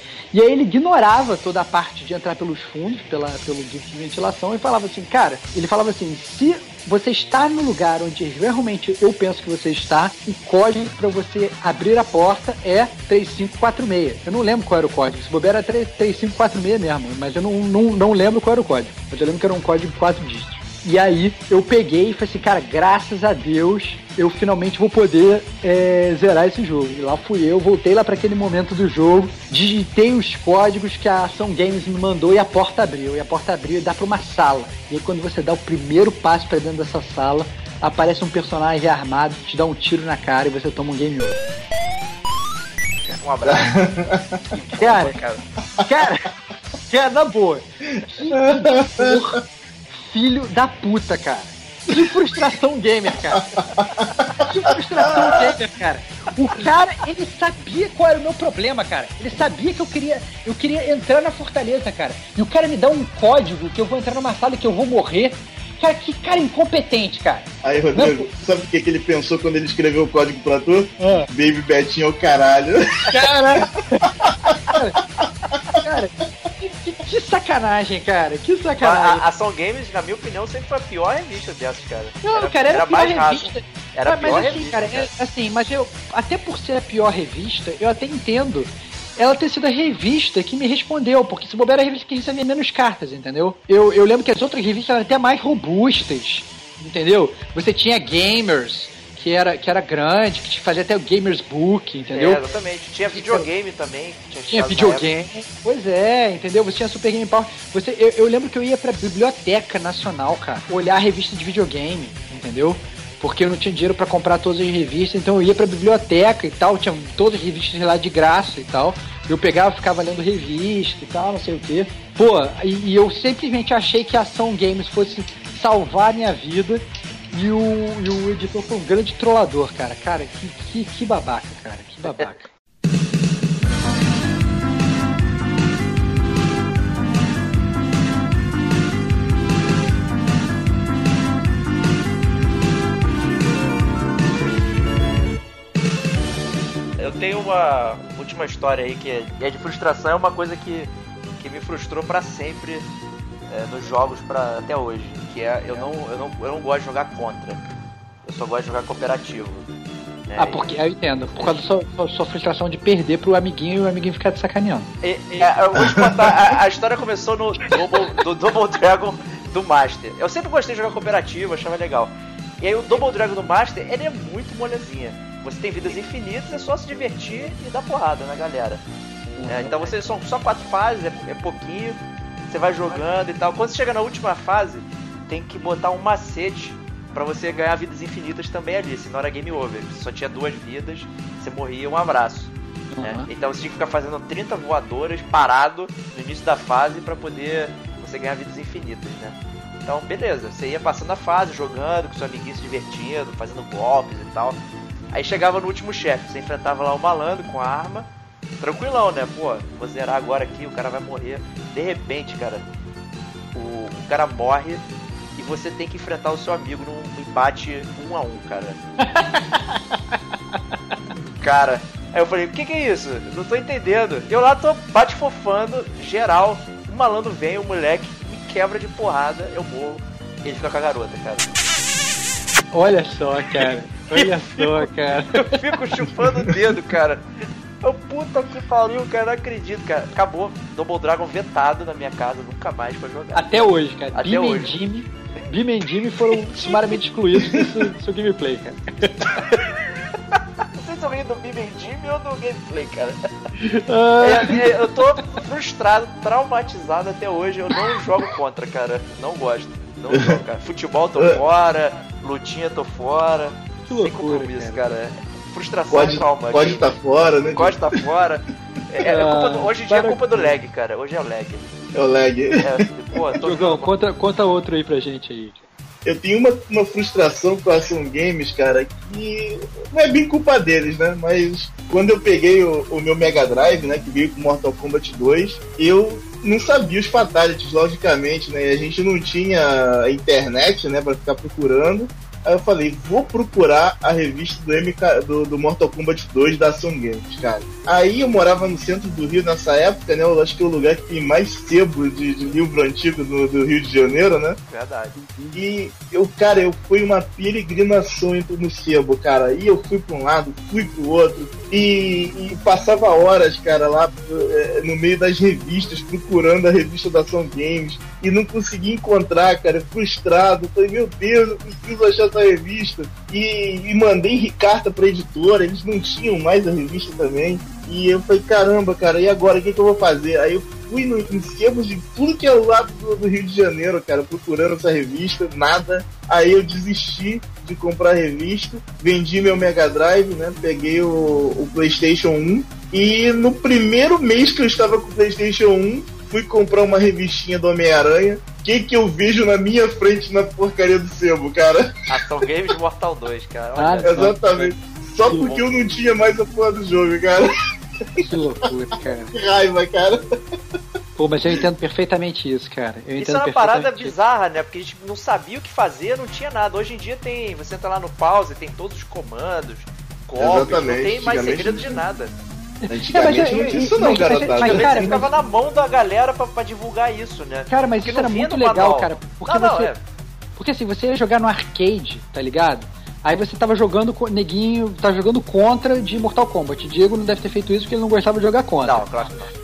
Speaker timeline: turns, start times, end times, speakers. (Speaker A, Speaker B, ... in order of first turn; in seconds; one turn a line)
Speaker A: 0.3-41.5
Speaker B: 43.1-43.8
Speaker C: 43.4-44.4
Speaker B: 44.5-45.4
Speaker A: 44.6-45.2
Speaker A: 45.8-46.3
Speaker A: 46.9-49.4
Speaker C: 48.0-49.4
Speaker A: 50.0-53.6
Speaker C: 53.3-54.1
Speaker A: 54.4-68.3
Speaker C: 55.0-55.5
Speaker C: 67.6-73.3
Speaker A: 71.0-71.3
Speaker A: 73.1-75.0
Speaker A: 75.7-79.2
Speaker B: 78.8-85.1
Speaker A: 82.2-102.4
Speaker B: 102.1-105.1
Speaker A: 103.1-103.5
Speaker A: 104.5-132.5
Speaker B: 147.0-152.9
Speaker B: 153.5-157.6
Speaker B: 158.2-159.7
Speaker B: 160.3-160.6
Speaker A: 160.4-165.5
Speaker B: 161.3-161.7
Speaker B: 165.0-178.8
Speaker C: 165.8-166.5
Speaker A: 179.4-179.9
Speaker B: 179.4-204.6
Speaker A: 192.9-193.3
Speaker B: 205.1-208.1
Speaker B: 208.6-212.6
Speaker B: 213.5-214.8
Speaker B: 215.4-218.8
Speaker A: 219.0-220.2
Speaker B: 221.4-231.5
Speaker A: 232.7-235.6
Speaker B: 233.6-237.2
Speaker B: 237.8-244.8
Speaker A: 243.3-249.3
Speaker B: 249.2-249.7
Speaker B: 250.3-253.2
Speaker A: 253.6-254.8
Speaker B: 254.2-267.0
Speaker C: 260.1-260.4
Speaker A: 263.9-264.9
Speaker C: 265.9-268.0
Speaker B: 267.5-271.7
Speaker A: 269.0-270.6
Speaker C: 271.9-272.8
Speaker B: 272.6-273.9
Speaker A: 273.4-275.6
Speaker C: 276.0-304.6
Speaker B: 304.7-305.1
Speaker A: 305.1-305.6
Speaker C: 305.5-352.5
Speaker B: 352.1-354.4
Speaker A: 353.8-354.7
Speaker C: 354.0-357.5
Speaker B: 355.3-355.9
Speaker C: 358.0-358.3
Speaker A: 358.2-359.4
Speaker C: 359.3-360.2
Speaker A: 361.2-364.1
Speaker B: 363.2-372.3
Speaker C: 370.4-372.0
Speaker A: 372.8-375.3
Speaker C: 372.9-375.3
Speaker B: 374.6-380.0
Speaker A: 377.7-379.9
Speaker A: 380.6-389.3
Speaker B: 388.8-389.5